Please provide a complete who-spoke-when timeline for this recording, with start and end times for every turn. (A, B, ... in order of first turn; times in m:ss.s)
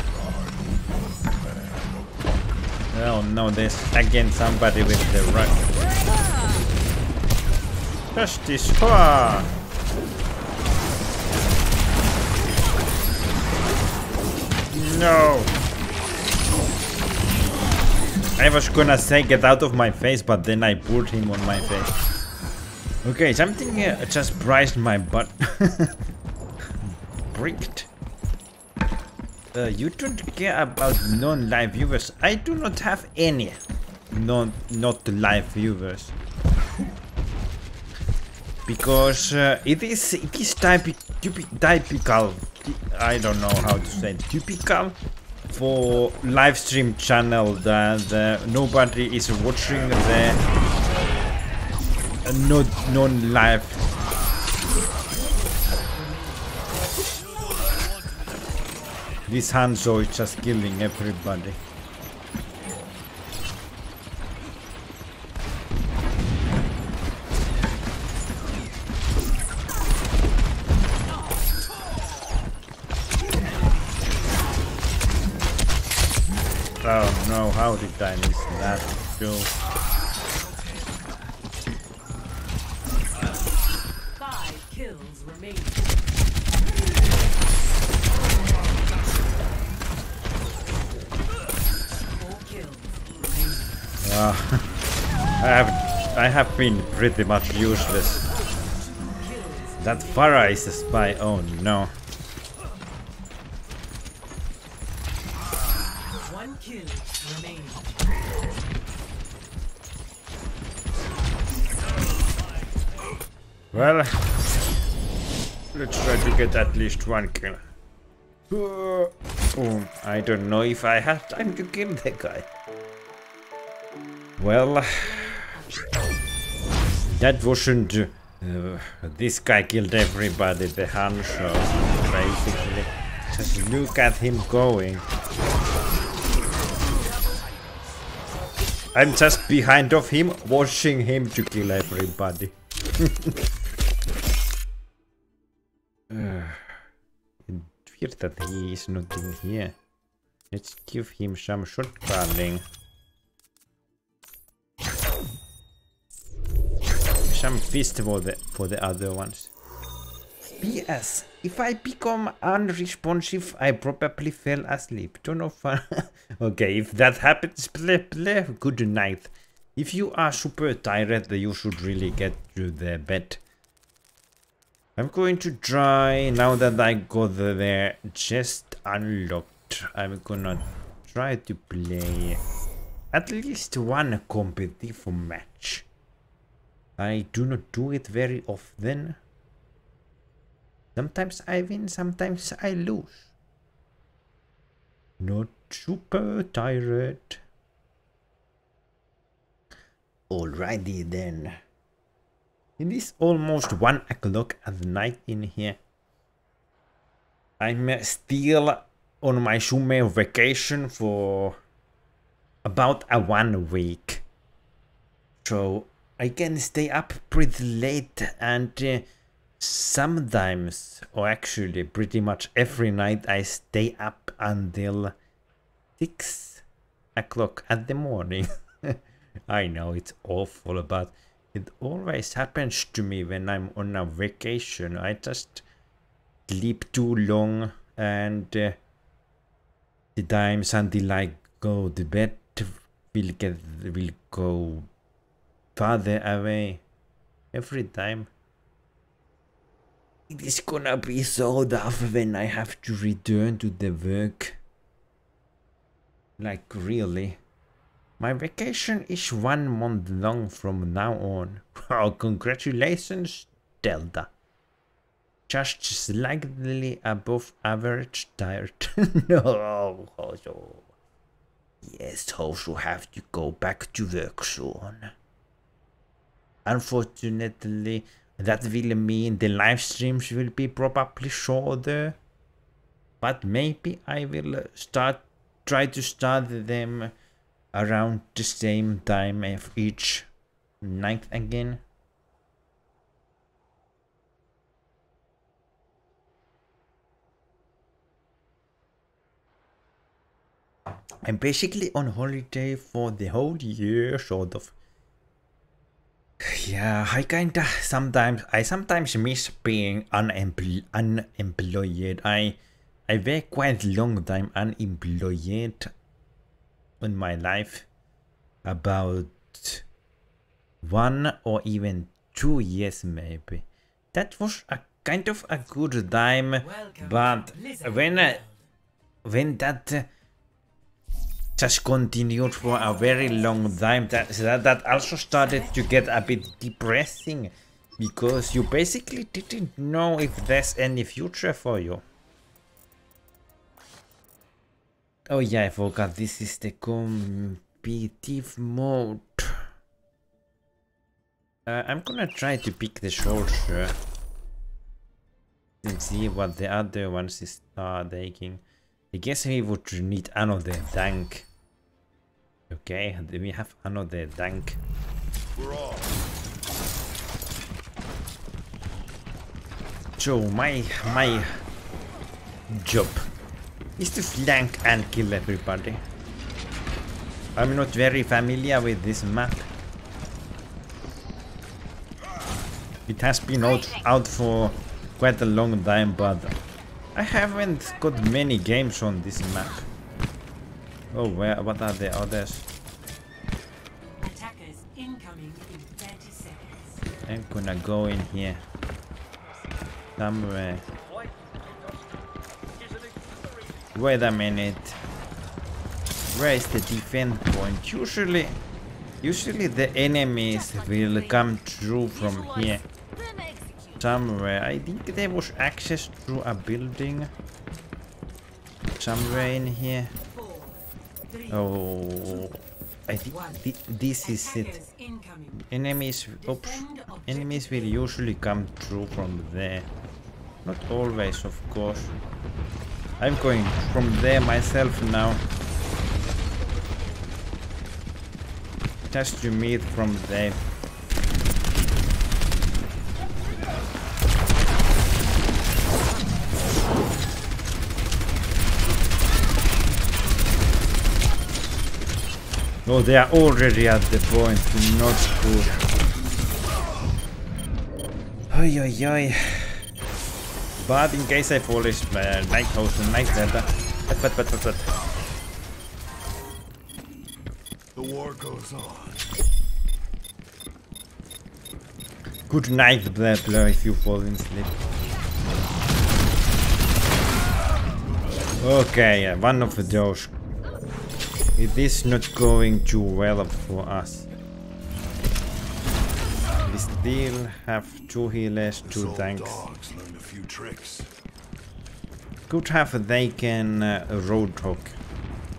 0:00.2-0:02.3 A
0:02.9-0:05.6 B
0:08.1-0:09.5 B
0:14.7-0:15.5 B
0:18.4-0:22.0 B
0:23.0-0:26.0 B
0:26.8-0:27.9 B
0:29.5-0:33.6 B
0:34.1-0:36.1 B
0:38.7-0:45.0 B
0:45.5-0:50.4 B
0:52.2-0:53.8 B
0:54.6-0:56.9 C
0:59.3-1:01.6 B
1:16.8-1:19.5 B
1:24.2-1:25.9 C
1:28.4-1:29.3 C
1:31.8-1:34.0 C
1:34.0-1:34.6 B
1:35.4-1:38.2 B
1:38.6-1:40.4 C
1:39.8-1:41.9 B
1:46.2-1:48.1 C
1:53.7-1:54.2 B
1:55.7-1:57.6 B
1:56.2-1:57.0 C
1:58.5-2:02.5 B
2:04.4-2:05.3 B
2:04.9-2:05.8 C
2:07.1-2:15.0 B
2:16.9-2:17.9 C
2:18.9-2:23.3 B
2:26.1-2:26.6 B
2:27.5-2:29.7 B
2:30.5-2:32.6 B
2:37.3-2:39.5 B
2:40.6-2:53.4 B
2:55.0-3:02.4 B
3:03.1-3:05.8 B
3:07.0-3:09.2 B
3:10.9-3:13.3 B
3:15.2-3:17.4 B
3:20.3-3:21.6 B
3:22.8-3:25.8 B
3:27.6-3:31.6 B
3:32.6-3:34.2 B
3:35.4-3:39.0 B
3:39.6-3:45.1 B
3:46.0-3:46.6 B
3:47.2-3:49.0 B
3:49.5-3:55.6 B
3:56.5-3:58.8 B
4:00.1-4:04.9 B
4:05.8-4:06.8 B
4:07.5-4:08.3 B
4:10.3-4:14.6 B
4:16.4-4:17.4 B
4:18.2-4:24.3 B
4:25.5-4:30.9 B
4:31.8-4:35.1 B
4:36.6-4:42.2 B
4:43.2-4:47.1 B
4:47.7-4:50.3 B
4:50.8-4:51.8 B
5:01.2-5:04.7 B
5:06.4-5:15.9 B
5:17.0-5:17.8 B
5:18.6-5:19.8 B
5:20.8-5:28.4 B
5:26.6-5:28.6 C
5:29.2-5:30.1 B
5:31.6-5:42.0 B
5:33.1-5:33.6 C
5:35.3-5:36.4 C
5:45.3-5:49.6 B
5:51.6-5:53.9 B
5:55.8-6:01.5 B
6:02.7-6:04.8 B
6:05.5-6:06.2 A
6:10.2-6:11.6 B
6:12.7-6:13.2 B
6:14.0-6:16.0 B
6:17.6-6:19.7 B
6:23.1-6:26.5 B
6:27.1-6:29.9 B
6:31.1-6:32.6 B
6:34.2-6:37.0 C
6:37.2-6:38.6 B
6:40.2-6:40.8 B
6:43.9-6:45.0 B
6:46.3-6:48.6 B
6:49.2-6:52.8 B
6:50.5-6:51.6 C
6:52.1-6:53.7 C
6:54.0-6:57.3 B
6:59.0-7:00.1 B
6:59.2-6:59.7 C
7:00.2-7:01.7 C
7:01.5-7:04.8 B
7:03.3-7:03.6 C
7:04.2-7:05.6 C
7:05.5-7:09.9 B
7:06.4-7:08.0 C
7:10.6-7:12.1 B
7:13.2-7:15.4 B
7:19.1-7:20.6 B
7:32.8-7:35.8 B
7:38.5-7:39.8 B
7:40.8-7:44.9 B
7:47.9-7:49.3 A
7:52.5-7:54.8 B
7:58.6-8:00.3 B
7:59.5-7:59.8 C
8:01.6-8:04.3 B
8:06.6-8:09.6 B
8:08.8-8:11.1 A
8:12.5-8:15.0 B